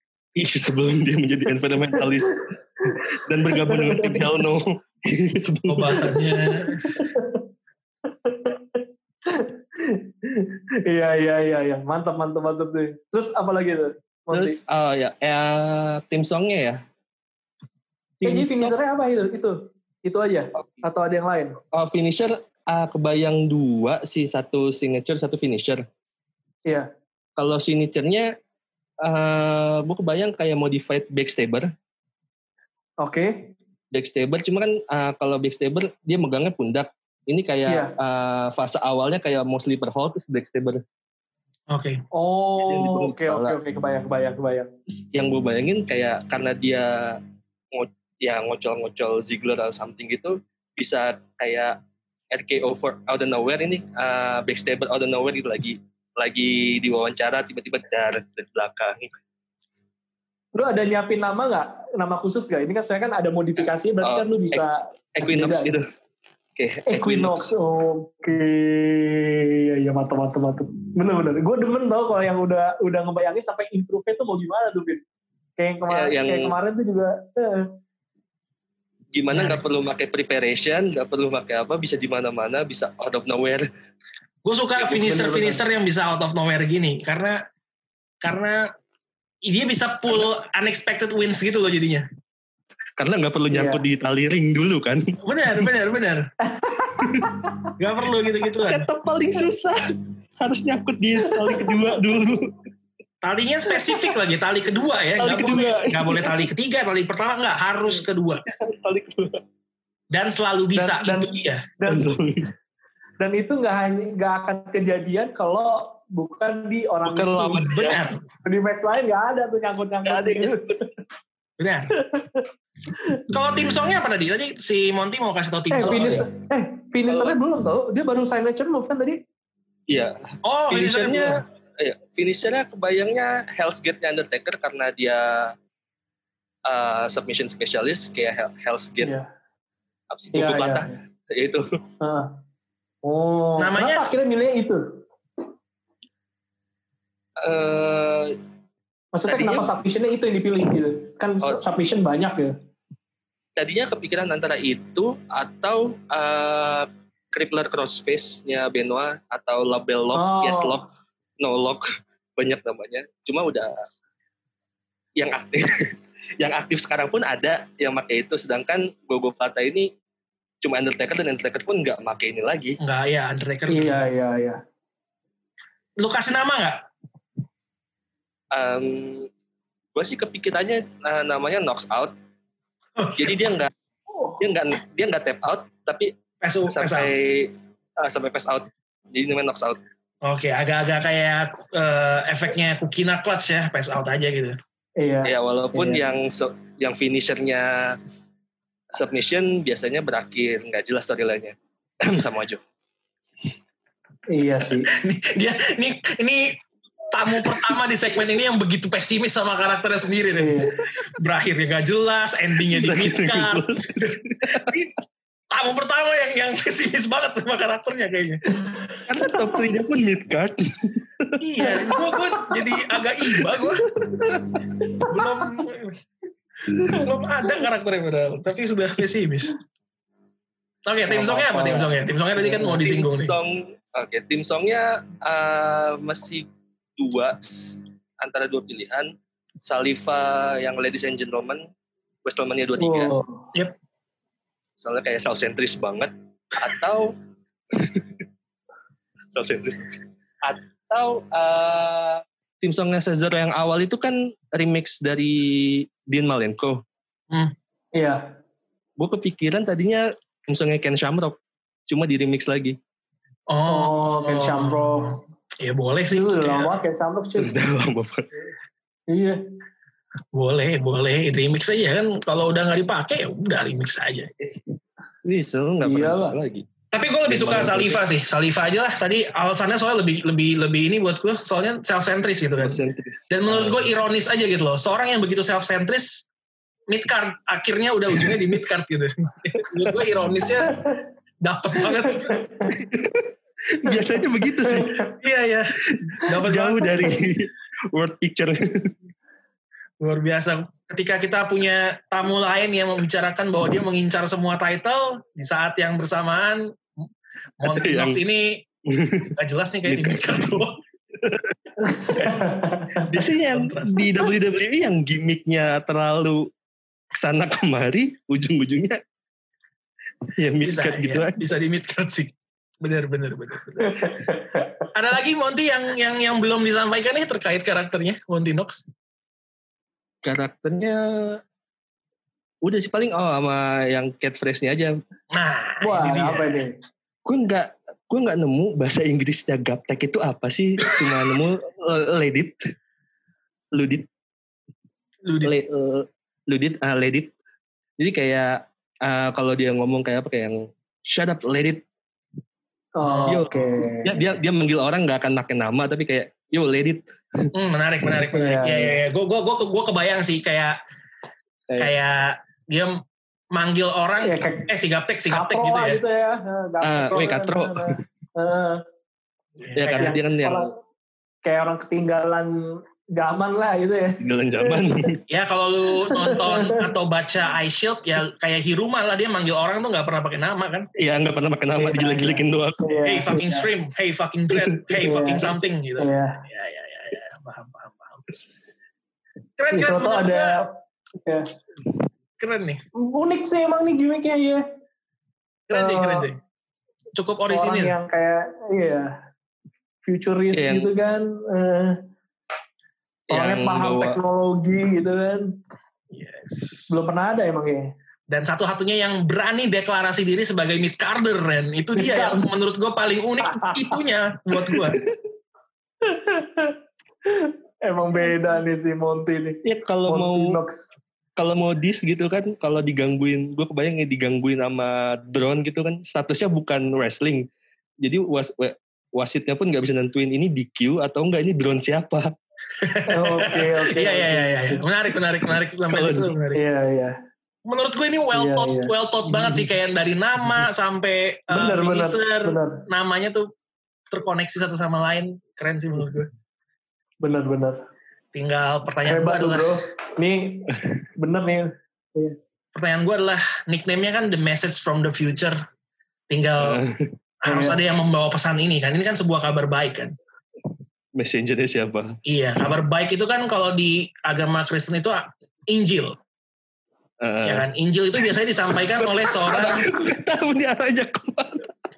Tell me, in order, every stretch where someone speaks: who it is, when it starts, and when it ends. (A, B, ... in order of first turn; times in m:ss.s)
0:00.4-0:06.2 A
0:01.9-0:04.3 B
0:05.7-0:06.9 C
0:06.8-0:07.4 B
0:08.2-0:14.6 B
0:14.3-0:16.8 A
0:18.2-0:18.8 A
0:18.2-0:21.6 B
0:21.7-0:25.8 A
0:27.4-0:28.3 A
0:29.0-0:31.7 A
0:33.0-0:33.6 B
0:33.9-0:40.8 A
0:37.7-0:37.9 B
0:41.7-0:42.0 C
0:42.1-0:44.7 B
0:42.6-0:43.6 A
0:45.1-0:47.2 A
0:47.7-0:51.8 A
0:52.3-0:59.1 A
1:00.6-1:05.8 B
1:03.6-1:04.6 A
1:05.2-1:05.9 A
1:06.6-1:07.5 A
1:06.9-1:15.0 B
1:15.6-1:17.7 B
1:15.9-1:16.6 A
1:19.1-1:23.7 A
1:19.3-1:19.6 C
1:24.4-1:27.4 C
1:24.8-1:25.6 B
1:28.2-1:28.7 C
1:29.4-1:32.1 C
1:33.0-1:35.6 A
1:33.5-1:33.8 B
1:35.2-1:36.3 C
1:36.5-1:37.7 B
1:37.0-1:37.3 A
1:37.8-1:38.9 C
1:38.6-1:39.8 A
1:40.4-1:42.6 A
1:41.2-1:41.9 B
1:43.2-1:48.4 C
1:45.2-1:46.5 A
1:48.5-1:49.4 A
1:50.1-1:51.7 C
1:50.8-1:52.1 B
1:51.9-1:52.5 A
1:53.2-1:57.7 B
1:57.0-1:58.1 A
1:57.7-1:58.2 C
1:58.4-2:00.7 B
2:00.0-2:00.8 A
2:01.6-2:01.9 C
2:02.0-2:03.2 B
2:03.3-2:06.2 C
2:05.7-2:09.2 B
2:05.8-2:06.3 A
2:07.1-2:07.4 A
2:09.9-2:15.6 A
2:10.4-2:11.4 C
2:16.7-2:19.2 A
2:19.0-2:19.3 B
2:20.1-2:21.7 A
2:20.3-2:21.0 B
2:22.0-2:22.4 B
2:23.0-2:24.8 B
2:23.6-2:24.1 C
2:27.4-2:28.4 A
2:29.1-2:32.6 B
2:29.2-2:29.7 A
2:33.6-2:40.8 A
2:40.1-2:40.8 B
2:41.4-2:41.8 A
2:42.4-2:43.9 A
2:45.2-2:49.9 A
2:50.6-2:52.8 A
2:52.8-2:54.0 C
2:53.7-2:54.6 B
2:56.0-2:56.8 C
2:58.5-2:59.3 A
3:00.0-3:02.1 A
3:03.0-3:03.4 C
3:03.2-3:03.7 A
3:04.4-3:06.2 A
3:06.4-3:07.2 C
3:06.7-3:09.8 A
3:10.2-3:14.6 C
3:15.0-3:16.0 B
3:15.2-3:18.0 A
3:18.9-3:22.6 A
3:24.3-3:24.9 B
3:24.9-3:26.6 C
3:27.1-3:35.0 C
3:30.4-3:30.7 B
3:32.7-3:34.8 A
3:35.5-3:38.4 C
3:38.6-3:39.0 B
3:39.1-3:41.4 A
3:41.4-3:43.8 C
3:43.2-3:44.6 A
3:44.8-3:45.1 B
3:45.1-3:46.0 C
3:46.9-3:49.6 C
3:50.8-3:53.4 C
3:51.1-3:52.8 B
3:52.6-4:01.7 A
4:02.2-4:03.1 A
4:02.8-4:03.5 B
4:04.8-4:07.2 A
4:07.7-4:08.2 A
4:09.3-4:16.8 A
4:18.0-4:18.4 B
4:19.0-4:22.8 A
4:23.5-4:26.8 C
4:23.7-4:25.2 B
4:26.1-4:27.6 B
4:27.4-4:28.3 A
4:29.1-4:29.4 B
4:30.3-4:34.3 C
4:34.4-4:34.7 A
4:35.2-4:36.7 A
4:35.8-4:36.4 B
4:36.9-4:46.3 C
4:37.3-4:38.0 A
4:42.6-4:43.9 A
4:46.9-4:50.8 C
4:50.7-4:51.0 B
4:51.4-4:52.4 C
4:51.9-4:52.7 B
4:52.7-4:55.1 A
4:54.6-4:55.1 B
4:55.2-4:57.1 C
4:55.9-4:58.9 A
5:00.0-5:06.7 C
5:07.6-5:08.6 C
5:07.6-5:08.2 A
5:08.9-5:09.3 A
5:09.4-5:10.8 C
5:09.9-5:10.5 A
5:11.2-5:11.6 A
5:11.8-5:13.1 B
5:12.1-5:16.5 A
5:13.4-5:14.2 C
5:17.1-5:19.0 A
5:20.4-5:21.5 A
5:20.6-5:24.1 C
5:23.8-5:24.7 B
5:24.9-5:28.8 C
5:30.2-5:31.4 A
5:32.6-5:35.0 A
5:35.3-5:36.6 C
5:35.8-5:36.8 B
5:37.3-5:42.6 A
5:43.7-5:44.1 A
5:45.2-5:45.6 C
5:45.4-5:47.3 A
5:48.0-5:51.8 A
5:53.0-5:54.2 B
5:53.0-5:53.5 C
5:53.3-5:57.5 A
5:57.5-6:00.8 C
5:58.3-5:59.0 B
6:01.8-6:03.0 C
6:03.5-6:06.0 C
6:04.2-6:04.7 B
6:05.3-6:08.8 B
6:06.8-6:08.0 A
6:09.6-6:10.2 C
6:09.8-6:10.7 A
6:09.9-6:10.8 B
6:11.4-6:14.9 B
6:14.2-6:15.2 A
6:15.3-6:20.9 C
6:16.1-6:16.9 B
6:21.0-6:23.0 A
6:21.8-6:23.7 B
6:23.0-6:28.2 C
6:24.6-6:24.9 A
6:25.0-6:26.4 B
6:29.6-6:30.6 C
6:29.7-6:31.5 B
6:32.4-6:32.8 C
6:33.0-6:34.6 B
6:35.7-6:36.4 C
6:35.7-6:36.3 B
6:37.2-6:38.0 C
6:37.4-6:39.1 B
6:40.0-6:42.0 B
6:40.5-6:40.9 A
6:43.3-6:44.2 A
6:43.3-6:45.5 B
6:46.1-6:47.0 C
6:46.9-6:47.9 B
6:48.3-6:55.0 C
6:52.0-6:52.5 B
6:53.4-6:54.0 B
6:54.8-6:55.2 A
6:56.0-6:56.8 B
6:57.3-7:00.9 B
6:59.6-7:00.6 A
7:01.4-7:07.5 A
7:08.0-7:12.3 A
7:12.8-7:16.6 C
7:13.1-7:14.9 B
7:15.9-7:16.3 A
7:16.5-7:17.2 B
7:17.7-7:23.5 C
7:18.3-7:19.6 B
7:21.5-7:22.8 B
7:24.1-7:26.3 C
7:27.2-7:27.8 B
7:28.3-7:29.7 C
7:29.0-7:32.4 B
7:32.8-7:35.6 C
7:36.3-7:36.8 C
7:36.6-7:37.1 A
7:37.4-7:40.2 C
7:37.5-7:37.8 B
7:41.2-7:42.2 A
7:42.3-7:46.2 C
7:47.2-7:47.7 A
7:47.4-7:49.9 C
7:48.8-7:51.7 A